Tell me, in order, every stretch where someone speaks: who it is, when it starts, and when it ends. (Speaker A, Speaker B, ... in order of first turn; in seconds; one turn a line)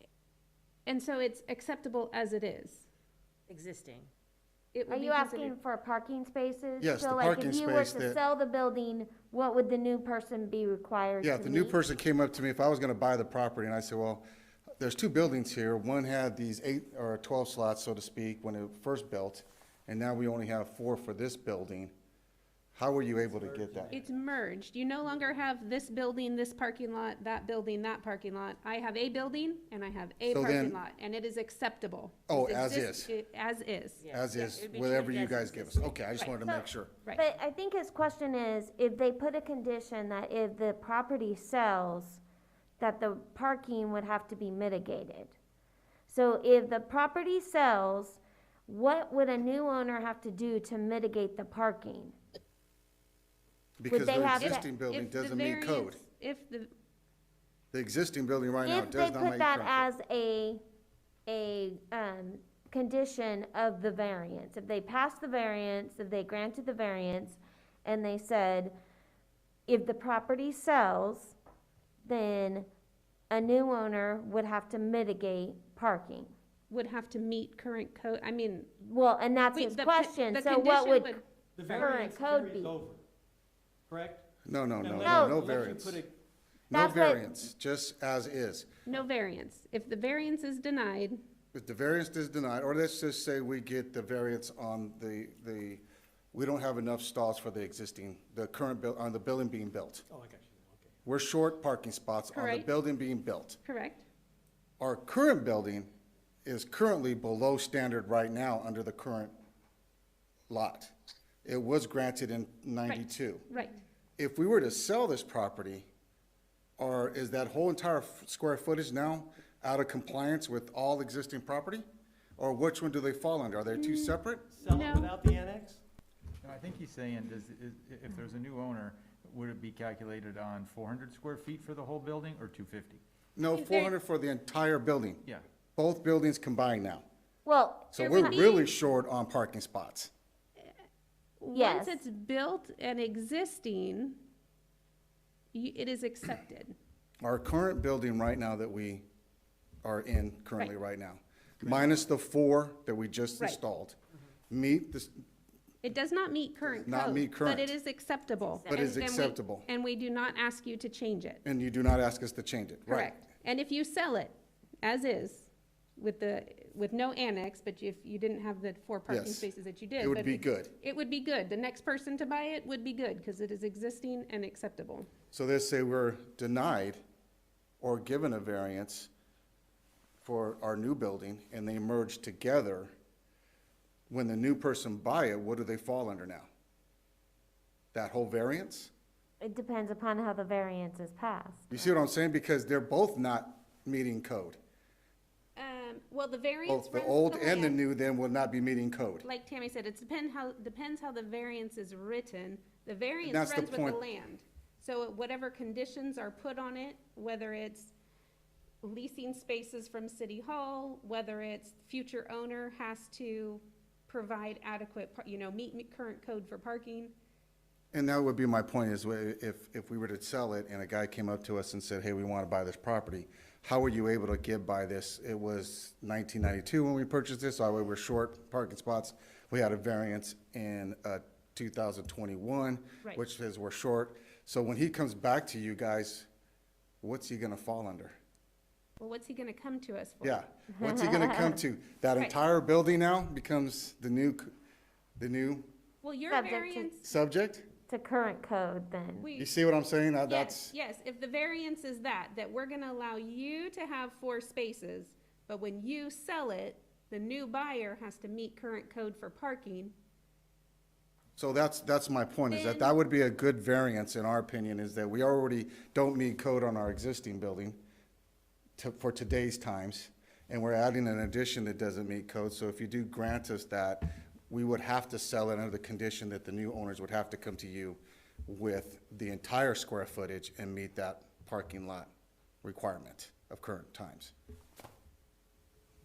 Speaker A: 0.9-2.9
Speaker B: 3.5-4.1
Speaker A: 4.7-5.5
Speaker C: 4.9-11.8
Speaker D: 6.8-8.2
Speaker D: 11.2-14.3
Speaker D: 14.8-21.9
Speaker D: 22.8-24.0
Speaker A: 23.9-34.1
Speaker D: 30.3-30.8
Speaker D: 32.3-33.1
Speaker B: 34.0-36.3
Speaker D: 34.1-37.0
Speaker C: 36.4-42.2
Speaker C: 42.8-45.4
Speaker C: 46.1-52.2
Speaker D: 53.8-56.0
Speaker C: 53.9-54.6
Speaker A: 54.4-56.7
Speaker D: 57.7-59.9
Speaker C: 58.6-60.6
Speaker C: 61.3-68.8
Speaker C: 69.7-71.4
Speaker C: 72.0-72.7
Speaker C: 73.3-76.3
Speaker A: 76.7-78.7
Speaker C: 78.8-82.8
Speaker A: 79.5-81.2
Speaker E: 81.6-83.0
Speaker E: 83.9-84.2
Speaker D: 84.5-86.0
Speaker E: 84.8-86.1
Speaker C: 85.0-85.5
Speaker D: 86.7-88.7
Speaker C: 86.7-87.2
Speaker A: 88.9-91.2
Speaker D: 91.5-100.0
Speaker E: 100.1-101.0
Speaker D: 101.0-103.6
Speaker A: 102.3-102.7
Speaker A: 103.7-104.0
Speaker D: 104.8-105.9
Speaker D: 106.5-109.3
Speaker D: 110.5-110.9
Speaker D: 111.4-113.5
Speaker A: 112.9-113.8
Speaker D: 114.2-115.9
Speaker D: 116.8-121.9
Speaker D: 122.4-124.5
Speaker A: 123.8-125.1
Speaker E: 124.5-125.8
Speaker F: 126.4-133.0
Speaker D: 133.4-135.2
Speaker A: 133.5-133.9
Speaker D: 135.8-137.1
Speaker C: 137.4-138.5
Speaker D: 137.9-140.1
Speaker A: 138.0-138.7
Speaker A: 141.4-144.2
Speaker C: 141.5-142.0
Speaker A: 145.5-146.7
Speaker D: 147.2-149.1
Speaker D: 149.8-154.0
Speaker D: 154.5-155.2
Speaker A: 155.8-161.4
Speaker D: 156.8-157.8
Speaker D: 158.7-159.7
Speaker D: 161.4-163.1
Speaker A: 162.9-175.1
Speaker D: 169.1-170.7
Speaker D: 175.3-177.0
Speaker D: 177.8-179.1
Speaker D: 180.2-182.9
Speaker D: 184.1-186.5
Speaker D: 187.9-188.9
Speaker C: 189.4-191.7
Speaker D: 191.7-194.6
Speaker A: 195.6-197.8
Speaker D: 196.7-199.3
Speaker A: 199.2-207.9
Speaker D: 203.2-204.0
Speaker A: 208.8-217.1
Speaker D: 217.9-236.3
Speaker D: 237.0-238.1
Speaker A: 239.0-240.4
Speaker D: 240.2-244.5
Speaker C: 240.8-241.6
Speaker D: 245.2-245.7
Speaker A: 246.0-247.0
Speaker C: 246.3-246.9
Speaker D: 247.0-247.7
Speaker C: 247.8-249.3
Speaker A: 249.2-249.5
Speaker D: 249.4-250.7
Speaker A: 250.3-259.9
Speaker D: 261.4-267.8
Speaker A: 262.5-262.9
Speaker D: 268.8-282.1
Speaker D: 282.6-284.3